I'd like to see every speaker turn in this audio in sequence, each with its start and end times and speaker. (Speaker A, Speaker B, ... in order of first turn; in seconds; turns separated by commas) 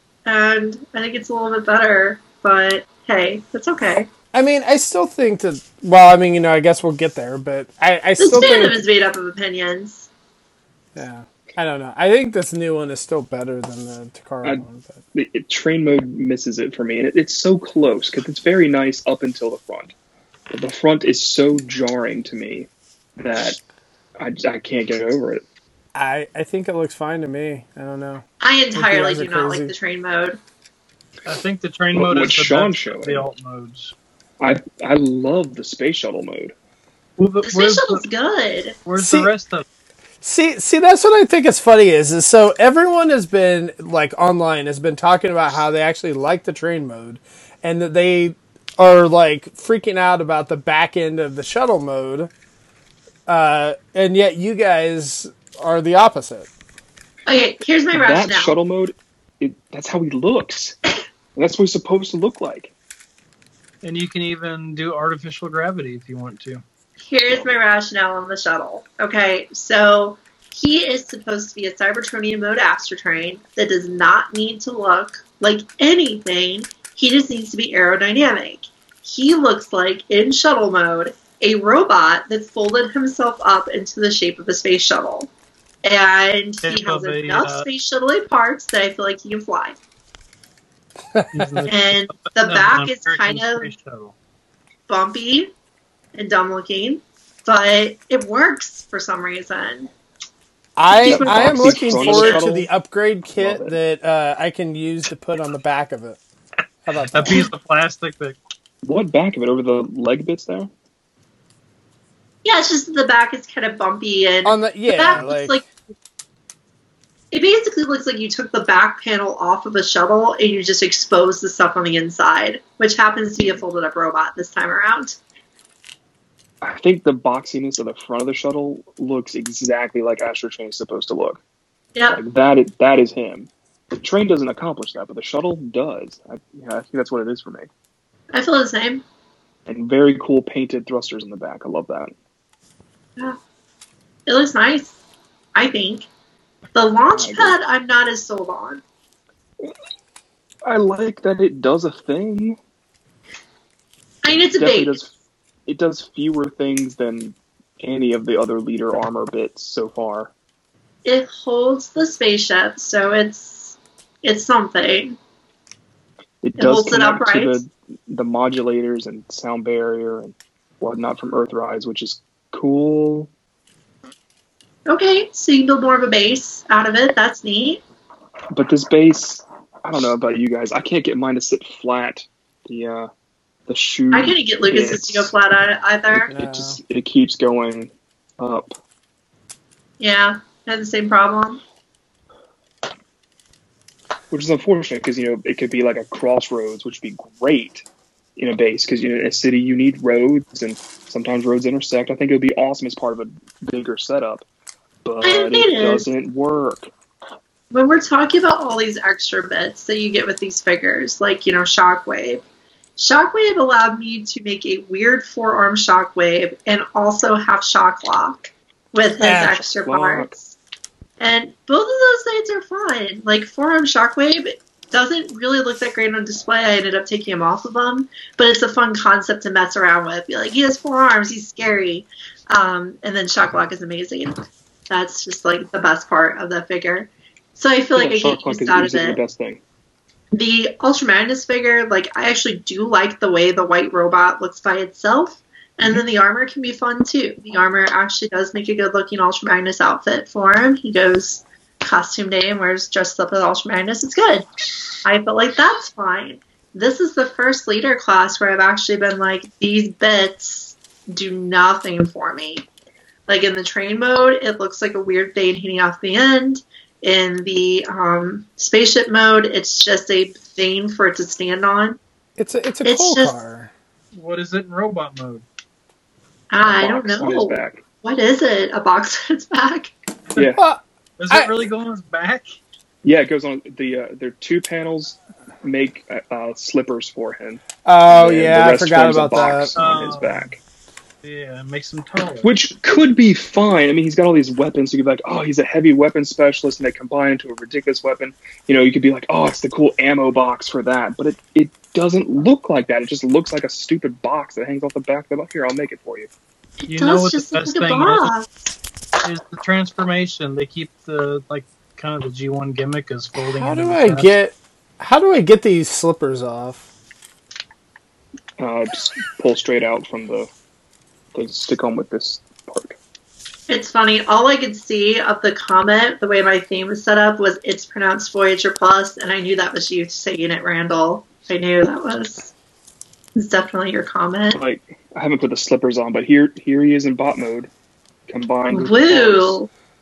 Speaker A: 0.2-4.1, Speaker B: 4.3-8.8, Speaker A: 8.2-10.1, Speaker B: 10.9-15.0, Speaker C: 14.4-19.9, Speaker C: 20.5-23.6, Speaker C: 24.2-25.4, Speaker B: 25.9-28.2, Speaker A: 28.4-30.4, Speaker B: 28.7-29.7, Speaker D: 31.2-33.9, Speaker C: 31.9-33.3, Speaker C: 34.4-36.5, Speaker D: 37.2-38.0, Speaker A: 37.4-38.8, Speaker D: 38.9-39.6, Speaker B: 39.0-39.3, Speaker B: 40.2-52.3, Speaker B: 53.3-56.5, Speaker A: 57.3-58.5, Speaker C: 57.9-60.8, Speaker C: 61.3-62.7, Speaker D: 63.8-66.6, Speaker A: 67.1-85.3, Speaker C: 67.3-67.6, Speaker A: 85.8-89.8, Speaker D: 86.6-87.7, Speaker B: 91.1-91.7, Speaker D: 91.3-94.1, Speaker A: 91.7-93.7, Speaker A: 94.9-95.5, Speaker A: 96.1-99.9, Speaker B: 100.8-106.2, Speaker A: 100.9-102.5, Speaker C: 101.0-102.7, Speaker C: 103.4-103.8, Speaker B: 106.8-107.5, Speaker D: 107.1-108.4, Speaker C: 108.8-110.7, Speaker A: 112.4-115.7, Speaker B: 114.4-115.6, Speaker A: 117.3-125.2, Speaker C: 126.6-131.4, Speaker A: 131.9-132.2, Speaker C: 132.1-137.7, Speaker A: 138.3-139.0, Speaker C: 139.7-142.1, Speaker A: 144.3-145.0, Speaker A: 145.5-146.1, Speaker A: 146.7-148.8, Speaker C: 147.1-147.6, Speaker C: 150.6-152.6, Speaker A: 154.2-155.0, Speaker C: 154.6-155.1, Speaker C: 155.7-160.3, Speaker A: 161.0-165.2, Speaker C: 166.4-173.3, Speaker A: 166.6-167.6, Speaker A: 174.9-177.8, Speaker C: 178.5-183.1, Speaker C: 183.7-185.3, Speaker A: 184.1-186.3, Speaker C: 186.2-188.7, Speaker B: 186.3-186.8, Speaker A: 190.0-191.6, Speaker C: 194.3-197.8, Speaker C: 198.4-204.4, Speaker C: 205.0-206.9, Speaker A: 205.2-206.1, Speaker A: 207.7-212.4, Speaker A: 213.0-220.6, Speaker B: 219.2-219.6, Speaker C: 219.3-220.3, Speaker A: 221.2-239.2, Speaker C: 237.9-239.6, Speaker A: 240.3-254.4, Speaker A: 255.0-262.7, Speaker A: 263.3-272.0, Speaker B: 272.4-273.7, Speaker A: 272.8-273.4, Speaker D: 274.1-275.4, Speaker A: 276.5-279.9, Speaker C: 276.6-277.8, Speaker B: 280.6-281.5, Speaker D: 281.2-282.6, Speaker C: 283.0-290.6, Speaker B: 287.8-289.7, Speaker D: 289.8-290.5, Speaker D: 291.2-292.5, Speaker C: 292.4-306.3, Speaker A: 306.8-308.7, Speaker D: 306.9-308.3, Speaker D: 309.2-314.3, Speaker B: 313.6-316.8, Speaker C: 318.6-320.5, Speaker C: 321.3-323.0, Speaker A: 323.7-332.5, Speaker A: 333.3-334.6, Speaker C: 334.5-337.7, Speaker C: 338.3-339.6, Speaker A: 338.7-339.7